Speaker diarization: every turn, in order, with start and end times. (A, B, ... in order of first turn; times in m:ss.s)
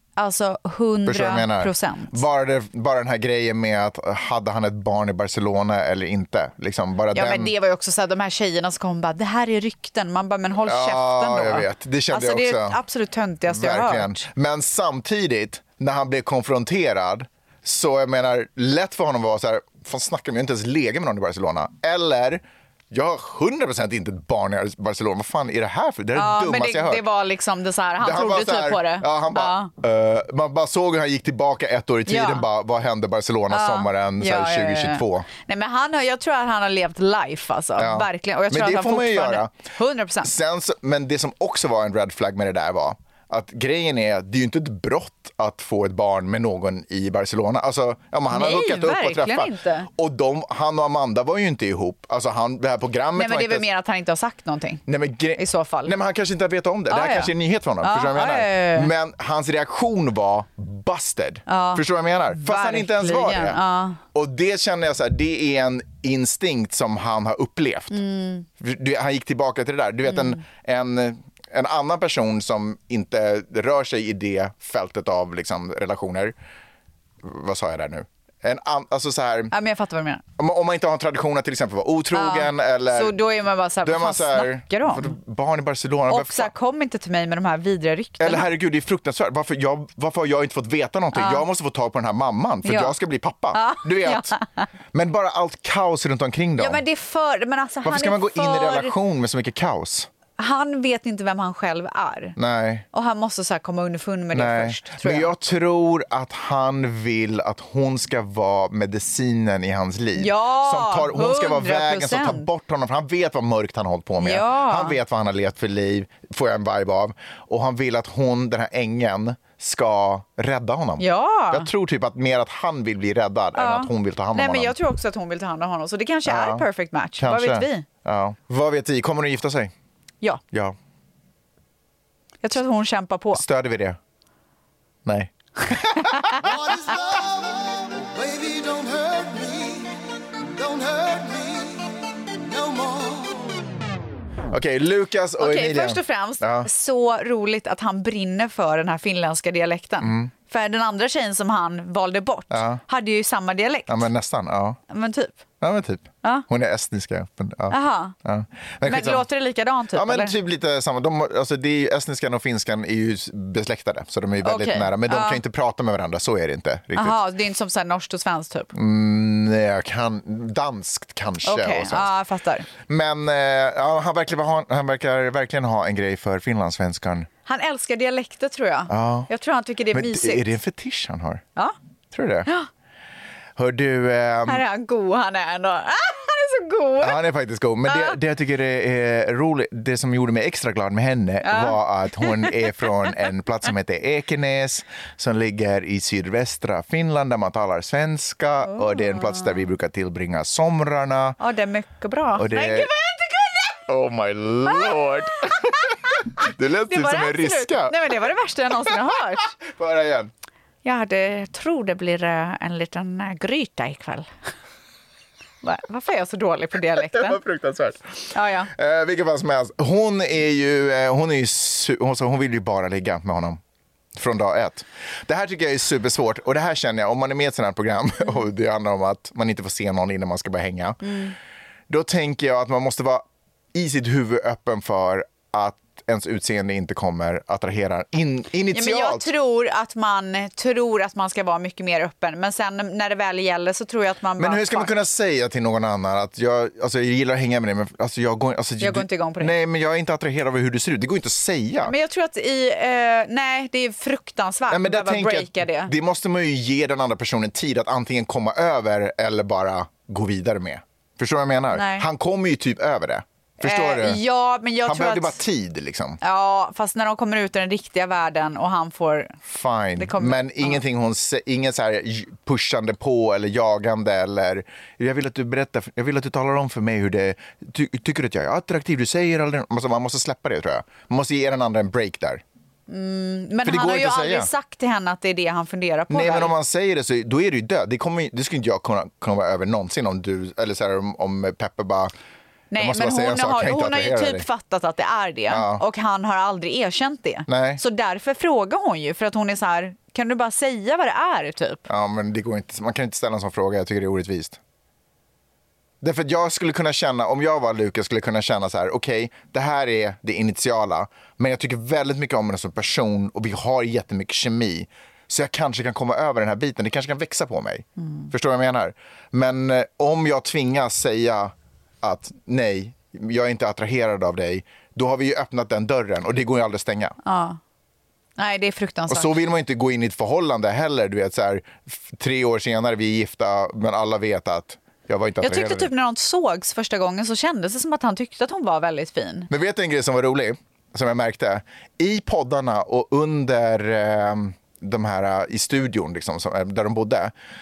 0:00.2-0:02.2 A
0:01.0-0:07.5 B
0:07.1-0:14.2 A
0:10.6-0:12.8 B
0:13.5-0:27.0 B
0:26.2-0:29.7 A
0:28.0-0:35.3 B
0:32.1-0:32.4 A
0:33.5-0:40.3 A
0:37.8-0:39.5 B
0:40.2-0:53.7 B
0:48.3-0:49.9 A
0:53.2-0:54.8 A
0:54.9-1:03.6 B
0:55.4-0:55.9 A
0:56.9-0:58.9 A
1:01.5-1:04.0 A
1:04.1-1:08.0 B
1:07.9-1:08.5 A
1:08.6-1:16.4 B
1:10.1-1:10.4 A
1:17.2-1:19.5 B
1:19.5-1:20.2 A
1:20.4-1:23.2 B
1:22.1-1:25.2 A
1:23.8-1:26.5 B
1:26.1-1:28.5 A
1:28.2-1:34.3 B
1:31.1-1:31.4 A
1:32.6-1:33.0 A
1:33.5-1:34.6 A
1:34.9-1:36.8 B
1:36.6-1:38.9 A
1:37.8-1:40.1 B
1:40.4-1:42.4 A
1:42.4-1:42.9 B
1:42.9-1:45.3 A
1:44.3-2:04.8 B
1:50.2-1:52.5 A
1:54.2-1:55.0 A
2:01.0-2:01.7 A
2:03.6-2:07.8 A
2:06.3-2:06.6 B
2:07.2-2:09.7 B
2:12.4-2:13.4 A
2:13.3-2:14.0 B
2:15.0-2:16.6 B
2:16.1-2:16.5 A
2:18.2-2:19.8 C
2:20.6-2:21.7 C
2:22.5-2:23.2 C
2:24.5-2:26.7 B
2:25.4-2:34.1 A
2:30.0-2:30.3 B
2:32.5-2:32.8 B
2:33.9-2:34.8 B
2:34.9-2:35.4 A
2:35.6-2:39.3 B
2:37.7-2:38.1 A
2:38.8-2:40.3 A
2:39.9-2:47.2 B
2:44.4-2:45.4 A
2:47.0-2:48.7 A
2:48.7-2:52.1 B
2:51.4-2:52.7 A
2:52.9-2:57.3 B
2:57.5-3:00.5 A
2:58.9-2:59.3 B
2:59.9-3:01.4 B
3:02.1-3:02.5 B
3:03.6-3:04.6 B
3:04.5-3:07.2 A
3:07.0-3:21.4 B
3:07.9-3:08.2 A
3:11.4-3:12.9 A
3:19.0-3:19.4 A
3:21.4-3:23.8 A
3:22.4-3:22.9 B
3:23.9-3:28.0 B
3:24.7-3:26.2 A
3:26.9-3:29.6 A
3:29.6-3:30.3 B
3:30.8-3:34.3 A
3:35.6-3:37.4 A
3:37.0-3:43.6 B
3:38.3-3:38.7 A
3:44.2-3:51.0 B
3:51.0-3:51.4 A
3:51.9-3:59.3 B
3:58.7-4:04.9 A
4:04.4-4:11.9 B
4:08.8-4:09.5 A
4:11.8-4:15.9 A
4:14.7-4:24.2 B
4:21.7-4:22.1 A
4:23.6-4:25.4 A
4:24.8-4:26.2 B
4:26.2-4:29.4 A
4:29.5-4:42.4 B
4:30.0-4:30.8 A
4:42.9-4:46.5 A
4:43.6-4:44.5 B
4:46.1-4:52.1 B
4:52.7-5:01.8 A
4:52.8-4:54.5 B
4:55.5-4:55.8 B
4:57.5-4:57.8 B
5:01.9-5:04.6 B
5:06.0-5:27.2 B
5:18.0-5:18.3 A
5:27.2-5:27.6 A
5:28.4-5:29.3 A
5:29.1-5:35.9 B
5:35.4-5:39.5 A
5:39.5-5:47.3 B